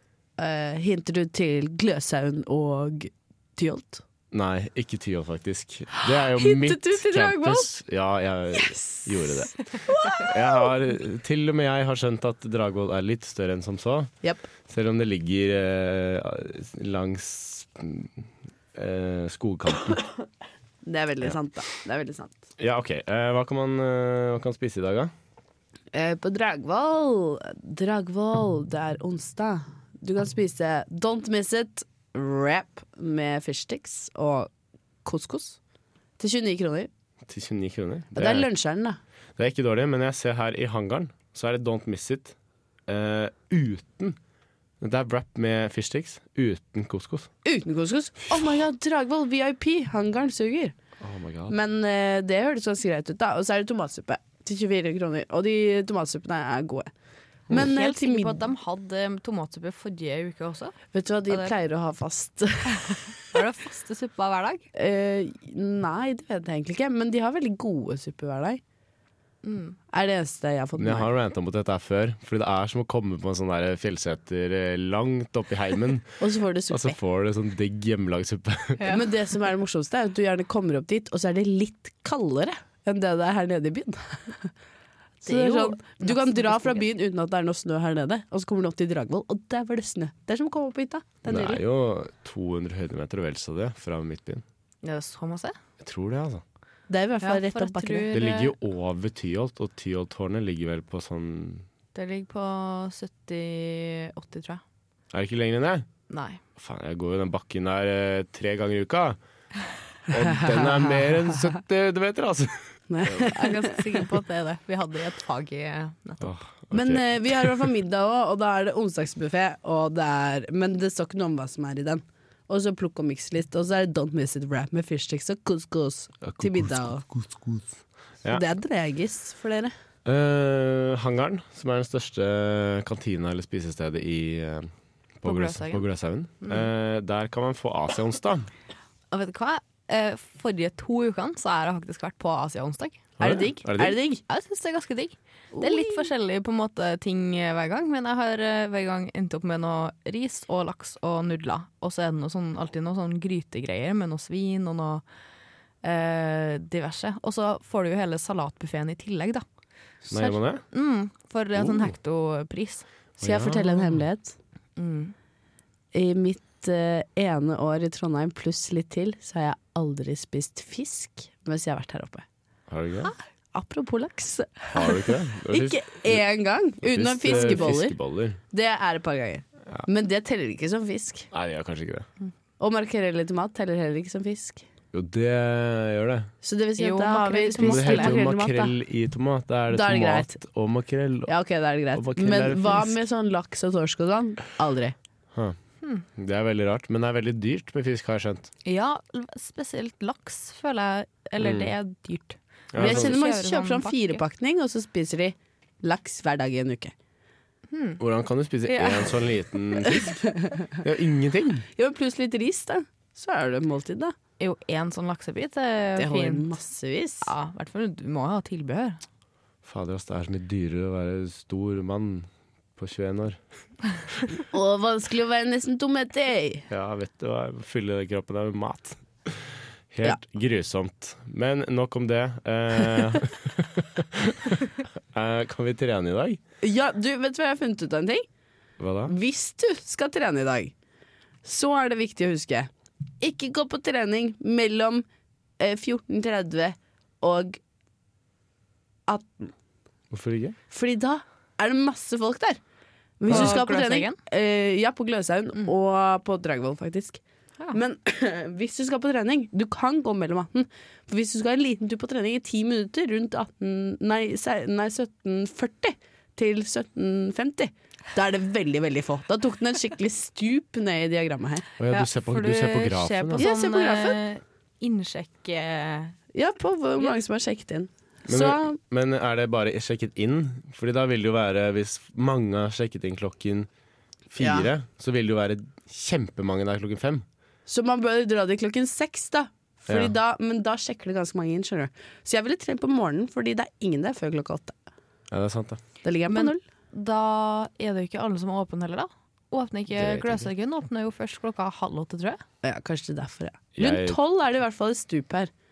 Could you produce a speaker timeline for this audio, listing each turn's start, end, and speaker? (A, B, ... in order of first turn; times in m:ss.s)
0:00.4-0:04.0 A
0:04.3-0:14.1 B
0:06.0-0:07.7 A
0:08.6-0:10.3 A
0:14.2-0:14.5 A
0:14.6-0:18.2 B
0:18.8-0:20.1 B
0:20.8-0:22.5 A
0:22.6-0:25.1 B
0:25.9-0:34.5 A
0:35.0-0:35.6 A
0:36.2-0:36.9 A
0:37.3-0:38.5 B
0:38.1-0:39.0 A
0:39.4-0:42.4 B
0:42.9-0:44.2 B
0:44.8-0:47.3 B
0:47.4-0:50.8 A
0:51.0-0:51.6 B
0:51.5-0:56.9 A
0:57.5-0:58.4 A
0:57.6-1:01.5 C
1:00.9-1:03.1 A
1:03.2-1:04.7 C
1:04.8-1:08.6 A
1:09.4-1:09.8 C
1:09.9-1:11.1 A
1:10.8-1:18.9 B
1:16.2-1:17.0 A
1:18.8-1:19.1 C
1:18.8-1:24.5 A
1:25.2-1:31.6 A
1:25.2-1:26.8 C
1:31.2-1:34.4 B
1:34.8-1:35.6 C
1:35.8-1:36.4 B
1:36.9-1:38.1 A
1:37.2-1:38.5 C
1:38.1-1:41.7 B
1:42.0-1:44.6 C
1:45.1-1:45.9 B
1:46.1-1:46.4 C
1:46.6-1:49.2 B
1:50.1-1:53.1 B
1:52.9-1:53.8 A
1:53.1-1:56.4 C
1:56.2-1:57.6 B
1:56.7-2:07.0 A
2:06.2-2:07.7 B
2:08.3-2:09.7 A
2:10.0-2:18.5 B
2:15.2-2:15.9 C
2:16.4-2:16.7 C
2:19.1-2:23.1 C
2:23.2-2:24.0 B
2:23.2-2:24.2 A
2:24.3-2:35.0 C
2:25.5-2:26.1 A
2:35.8-2:39.4 C
2:40.1-2:42.9 C
2:40.1-2:40.6 B
2:41.6-2:41.9 B
2:43.2-2:44.0 B
2:43.2-2:44.4 A
2:44.8-2:45.2 C
2:45.9-2:52.2 A
2:52.7-2:53.1 B
2:53.5-2:58.0 A
2:54.7-2:56.2 B
2:56.8-2:58.4 B
2:58.5-3:01.3 A
3:01.3-3:02.1 B
3:02.6-3:04.7 A
3:04.9-3:06.3 B
3:06.4-3:08.8 A
3:06.8-3:08.2 C
3:07.6-3:11.3 B
3:09.7-3:10.4 A
3:11.3-3:15.0 A
3:11.9-3:13.0 B
3:16.2-3:18.5 B
3:18.6-3:24.2 C
3:21.4-3:21.7 B
3:22.7-3:23.2 B
3:22.8-3:26.9 A
3:27.7-3:28.0 C
3:28.0-3:31.7 B
3:28.7-3:29.1 C
3:30.1-3:30.6 A
3:31.8-3:34.1 A
3:34.4-3:36.6 C
3:36.0-3:37.3 A
3:37.2-3:39.0 C
3:39.6-3:43.4 B
3:44.5-3:46.7 A
3:46.7-3:56.4 B
3:56.6-3:58.2 A
3:58.8-3:59.1 B
3:59.1-4:00.7 A
4:01.4-4:02.7 A
4:03.2-4:05.0 A
4:05.6-4:07.6 A
4:09.1-4:09.5 A
4:10.1-4:10.6 B
4:10.7-4:12.6 A
4:13.2-4:17.2 A
4:13.3-4:14.2 C
4:13.3-4:13.6 B
4:17.7-4:31.7 A
4:31.8-4:33.5 B
4:31.9-4:36.2 C
4:33.4-4:34.2 A
4:36.3-4:38.8 A
4:38.3-4:43.7 B
4:44.3-4:47.2 B
4:44.4-4:44.7 A
4:47.7-4:54.8 A
4:49.9-4:50.1 B
4:55.3-4:55.8 B
4:56.0-4:56.6 A
4:56.3-5:02.4 C
4:59.9-5:00.5 B
5:02.6-5:05.5 A
5:03.8-5:04.2 B